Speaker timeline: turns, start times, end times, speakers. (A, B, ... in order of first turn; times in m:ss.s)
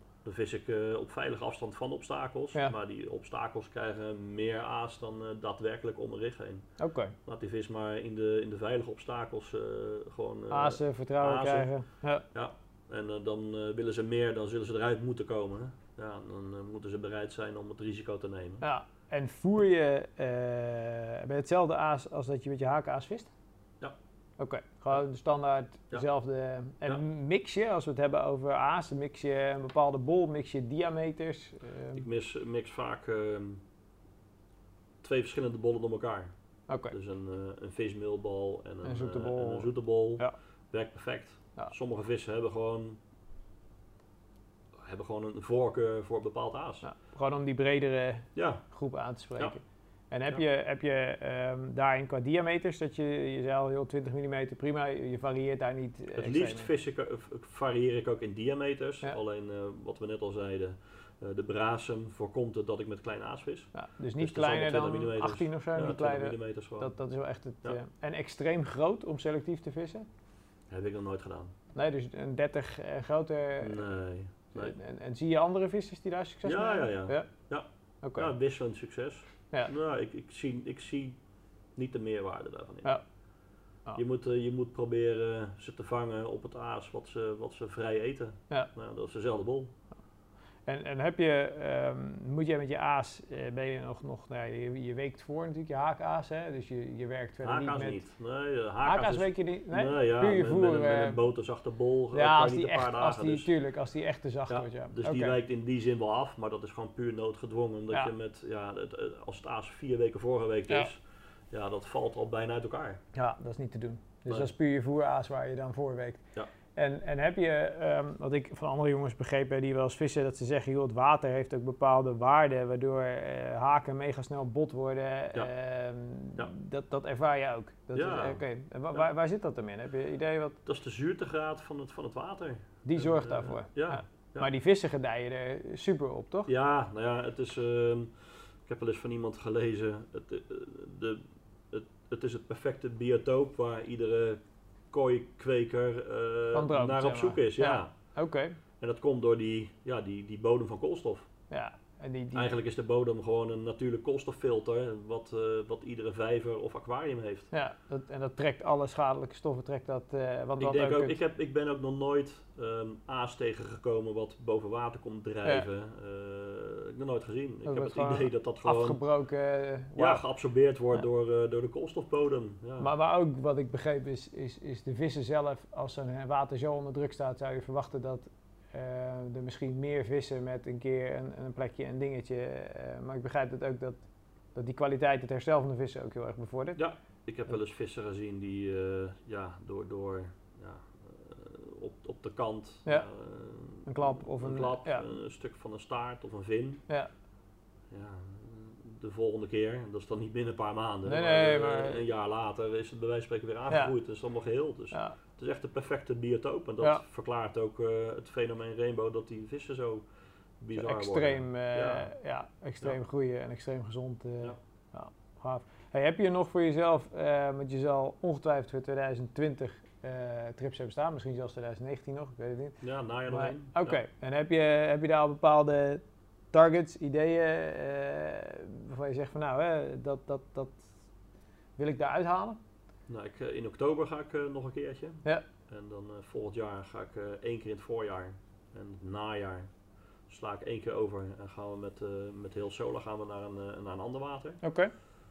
0:00.2-0:11.7 A
0:06.8-0:07.1 B
0:10.5-0:12.2 B
0:12.3-0:18.6 A
0:18.6-0:23.3 B
0:24.4-0:32.0 B
0:31.9-0:33.6 A
0:35.0-0:43.0 A
0:36.7-0:36.9 B
0:38.8-0:40.3 B
0:44.7-0:46.8 A
0:46.8-0:56.7 B
0:48.3-0:48.6 A
0:56.1-1:06.9 A
1:03.7-1:10.0 B
1:10.7-1:11.5 A
1:11.7-1:13.8 B
1:13.6-1:14.8 A
1:14.5-1:17.3 B
1:16.4-1:23.0 A
1:18.0-1:18.3 B
1:23.9-1:29.7 A
1:30.6-1:38.0 B
1:37.4-1:43.5 A
1:38.8-1:41.2 B
1:42.1-1:45.4 B
1:44.5-1:53.0 A
1:53.1-1:56.2 B
1:54.2-1:54.5 A
1:56.7-2:10.6 B
2:07.9-2:09.1 A
2:10.6-2:14.5 A
2:12.8-2:16.5 B
2:16.5-2:27.9 A
2:26.5-2:28.6 B
2:28.8-2:31.3 A
2:31.5-2:32.5 B
2:32.3-2:37.5 A
2:37.5-2:41.2 B
2:40.6-2:49.0 A
2:47.6-2:50.2 B
2:50.0-2:52.9 A
2:52.8-3:06.8 B
3:06.7-3:16.8 A
3:13.8-3:15.0 B
3:17.9-3:32.1 A
3:21.0-3:22.0 B
3:23.7-3:23.9 B
3:24.9-3:25.2 B
3:30.7-3:50.9 B
3:42.8-3:44.0 A
3:51.8-3:52.6 B
3:53.1-4:04.6 A
4:04.6-4:04.9 B